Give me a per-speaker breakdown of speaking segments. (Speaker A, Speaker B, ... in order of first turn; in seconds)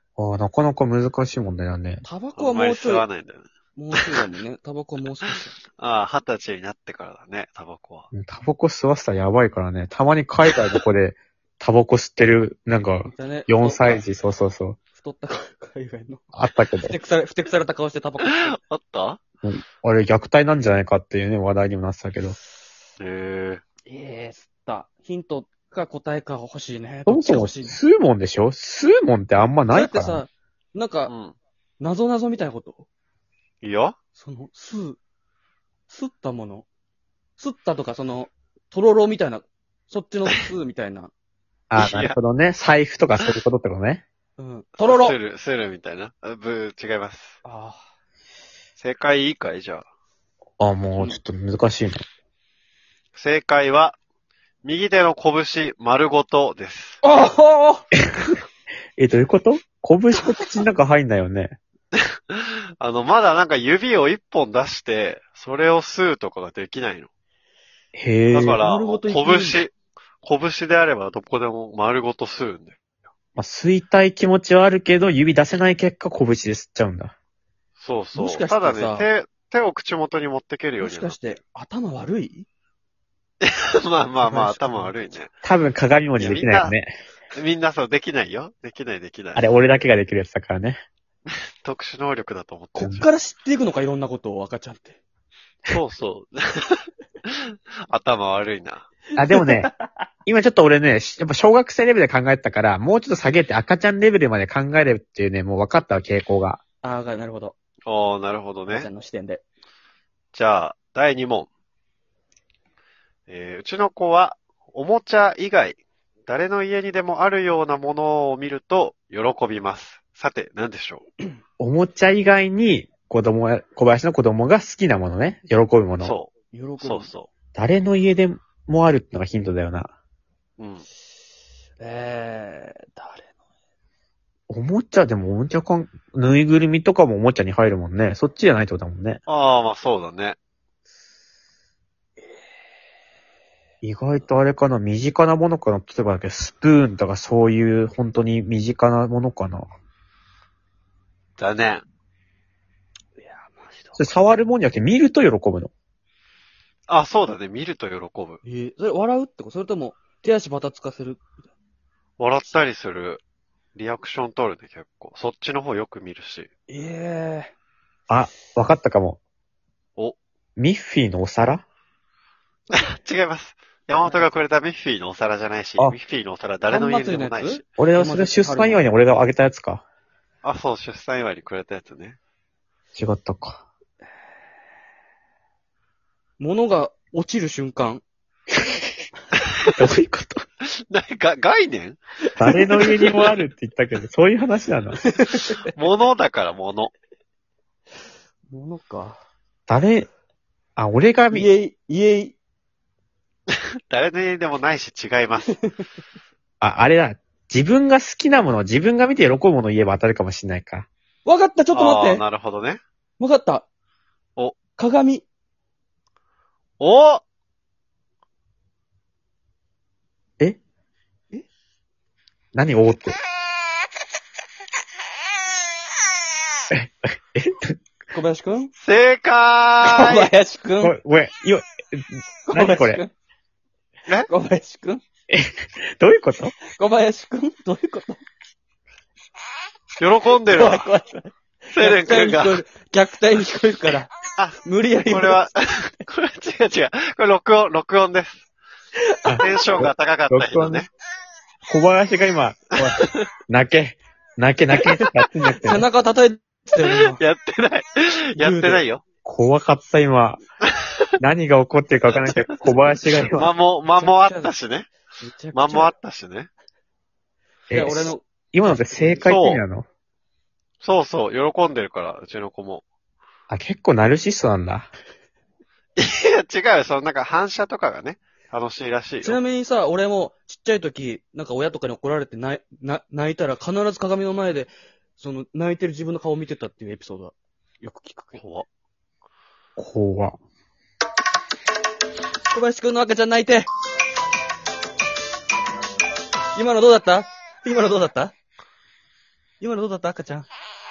Speaker A: 0.2-2.0, 8.1-14.8, 16.3-16.9, 19.4-22.4, 27.1-30.2, 41.7-44.0, 50.6-52.0, 59.0-61.6, 68.0-68.6, 73.4-77.1, 85.4-86.9, 89.4-90.8, 99.2-99.7, 100.3-106.6, 121.6-126.1, 127.5-129.9, 134.5-139.2, 143.8-149.7, 154.0-155.7, 168.1-169.2, 170.6-171.6, 177.8-179.8, 182.9-183.6, 189.7-190.4, 192.4-195.0, 199.7-200.1, 200.8-201.5, 206.6-210.9, 222.5-223.2, 226.7-227.8, 230.8-233.0, 235.3-236.6, 249.3-250.8, 251.7-255.8, 259.2-260.4, 261.2-263.5, 267.7-269.9, 273.5-274.9, 289.8-290.4
Speaker B: 2.0-3.0, 3.8-5.6, 13.1-14.1, 14.9-16.2, 16.9-18.6, 23.9-27.8, 29.7-31.1, 31.8-32.9, 34.2-35.0, 35.9-36.7, 37.4-41.1, 44.4-45.2, 47.4-47.8, 57.0-57.8, 68.4-69.6, 78.2-79.1, 80.8-82.5, 84.2-84.9, 92.8-95.0, 99.3-99.9, 106.8-107.6, 108.7-109.4, 126.5-127.1, 131.8-133.3, 153.2-154.5, 158.4-161.2, 166.7-167.5, 176.7-178.8, 186.4-188.0, 192.3-193.1, 195.0-195.6, 198.5-199.2, 201.3-202.4, 211.2-212.2, 213.2-213.7, 214.8-215.2, 228.1-228.7, 229.8-231.0, 232.5-233.1, 234.3-235.0, 236.7-238.2, 240.5-244.1, 244.6-245.5, 249.0-249.4, 255.6-257.2, 258.4-258.8, 264.0-264.5, 265.2-265.9, 267.7-269.1, 279.2-288.4, 292.5-293.7, 296.6-298.3, 299.6-300.5
Speaker C: 2.4-4.0, 5.8-8.1, 18.2-19.2, 23.0-23.6, 31.1-31.4, 33.6-34.0, 41.8-42.2, 44.8-47.4, 48.8-49.9, 53.2-54.0, 54.6-57.0, 62.3-67.1, 68.3-72.8, 77.8-81.2, 83.4-85.3, 86.2-86.7, 87.3-89.5, 91.3-93.1, 95.7-98.9, 107.9-108.9, 110.3-111.5, 113.3-121.0, 126.0-127.3, 130.6-130.9, 139.3-140.4, 151.4-151.8, 156.9-158.4, 162.2-163.2, 163.8-166.5, 172.7-177.6, 180.4-182.2, 190.9-192.0, 195.7-196.9, 203.5-205.5, 211.7-212.8, 216.8-217.2, 228.8-230.3, 240.0-240.9, 241.7-242.6, 244.4-248.4, 249.4-250.9, 256.8-259.0, 262.1-264.9, 265.5-266.5, 269.2-269.6, 270.8-272.9, 276.0-279.4, 288.4-288.7